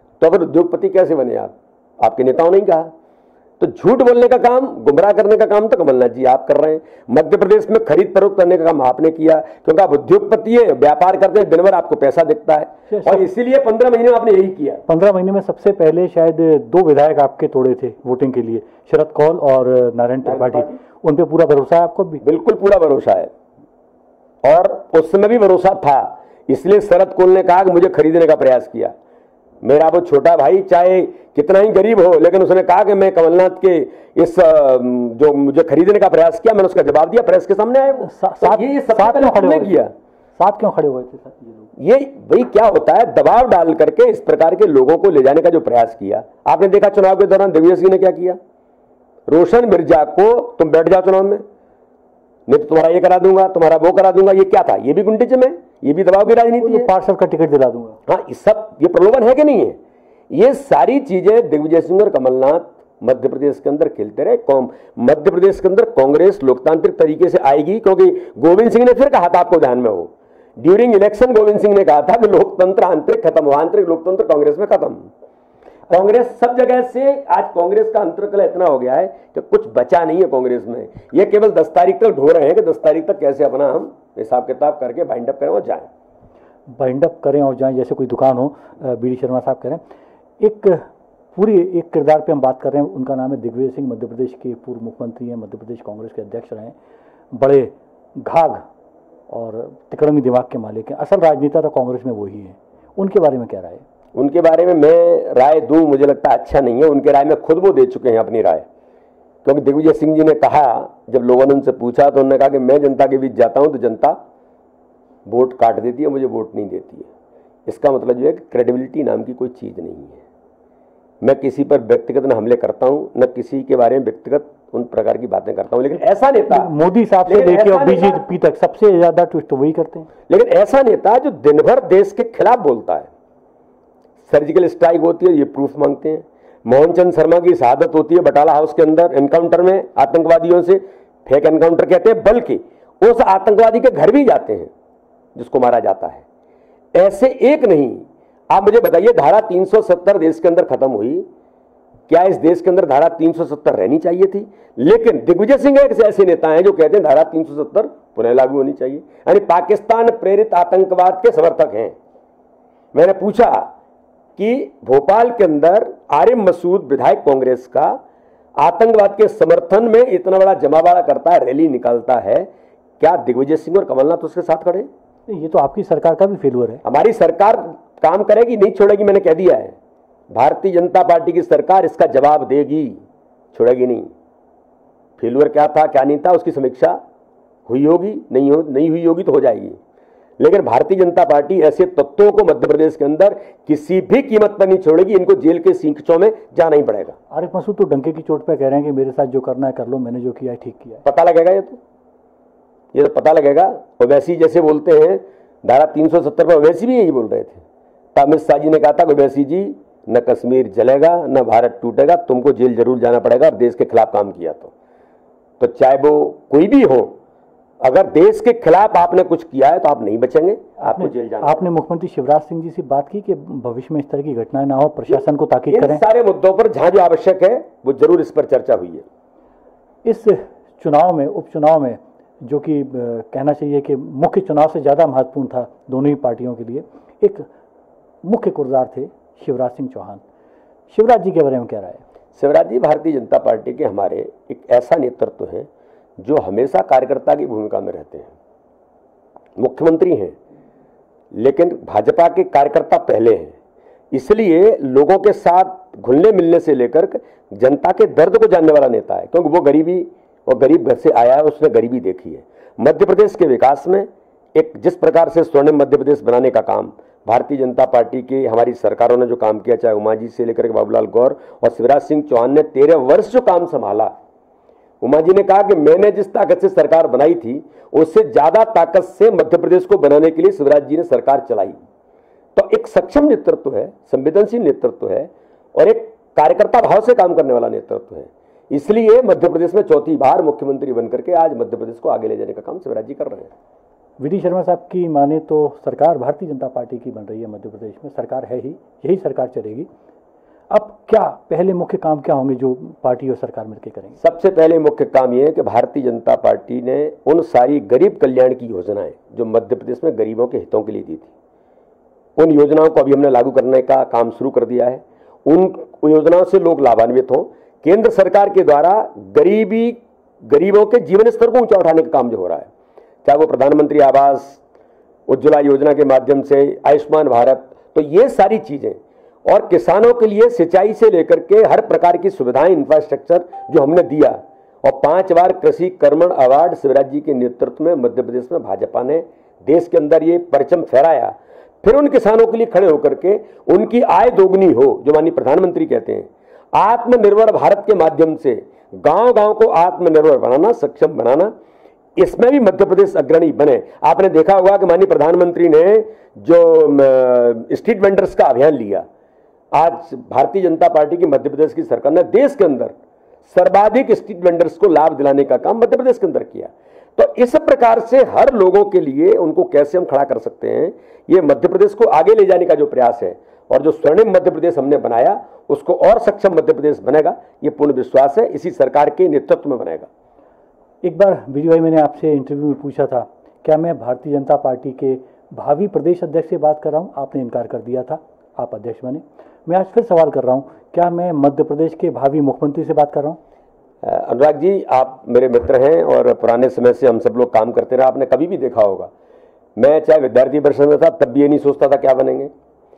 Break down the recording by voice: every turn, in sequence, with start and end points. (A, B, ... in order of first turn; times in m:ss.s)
0:00.2-0:02.9 A
0:03.6-0:14.8 A
0:12.9-0:13.2 B
0:14.9-0:22.2 B
0:20.2-0:20.8 A
0:22.2-0:23.3 A
0:24.4-0:28.9 A
0:29.6-0:39.9 A
0:38.0-0:39.8 B
0:40.4-0:41.7 B
0:41.8-0:48.4 A
0:49.3-0:51.4 A
0:52.5-0:56.9 A
0:56.6-0:58.0 B
0:58.1-0:59.8 A
1:00.3-1:15.1 A
1:15.9-1:25.9 A
1:26.7-1:29.8 B
1:30.4-1:30.8 B
1:31.3-1:36.7 B
1:37.3-1:38.6 B
1:39.3-1:43.8 B
1:44.1-1:48.6 A
1:49.4-1:54.2 A
1:55.2-1:57.1 A
1:57.7-2:00.2 A
2:01.2-2:06.7 A
2:06.5-2:10.1 B
2:07.2-2:08.2 A
2:10.3-2:13.1 A
2:14.3-2:24.7 A
2:25.4-2:26.2 A
2:26.9-2:31.3 A
2:32.1-2:41.9 A
2:42.9-2:43.7 A
2:44.4-2:48.0 A
2:48.6-2:52.5 A
2:53.0-2:54.9 A
2:55.3-2:56.8 B
2:56.8-2:59.8 A
3:00.3-3:03.0 A
3:03.5-3:04.1 A
3:05.2-3:07.0 A
3:07.7-3:09.8 A
3:10.4-3:17.2 A
3:17.3-3:21.0 B
3:21.0-3:21.8 A
3:22.9-3:27.6 A
3:28.1-3:34.7 A
3:35.6-3:37.1 A
3:37.8-3:41.6 A
3:40.8-3:46.0 B
3:45.1-3:49.0 A
3:50.0-3:57.5 B
3:58.2-4:00.2 B
4:00.9-4:02.0 B
4:02.3-4:05.7 A
4:06.2-4:08.3 A
4:09.6-4:10.4 A
4:11.3-4:13.6 A
4:14.1-4:34.1 A
4:35.0-4:41.8 A
4:42.5-4:53.5 A
4:54.2-4:59.9 B
5:00.7-5:04.2 B
5:04.2-5:11.3 A
5:12.4-5:22.7 A
5:23.2-5:24.6 A
5:25.3-5:51.5 A
5:52.2-5:59.0 A
5:59.7-6:02.9 A
6:03.4-6:20.1 A
6:21.0-6:33.4 B
6:34.0-6:39.1 A
6:39.8-6:42.5 A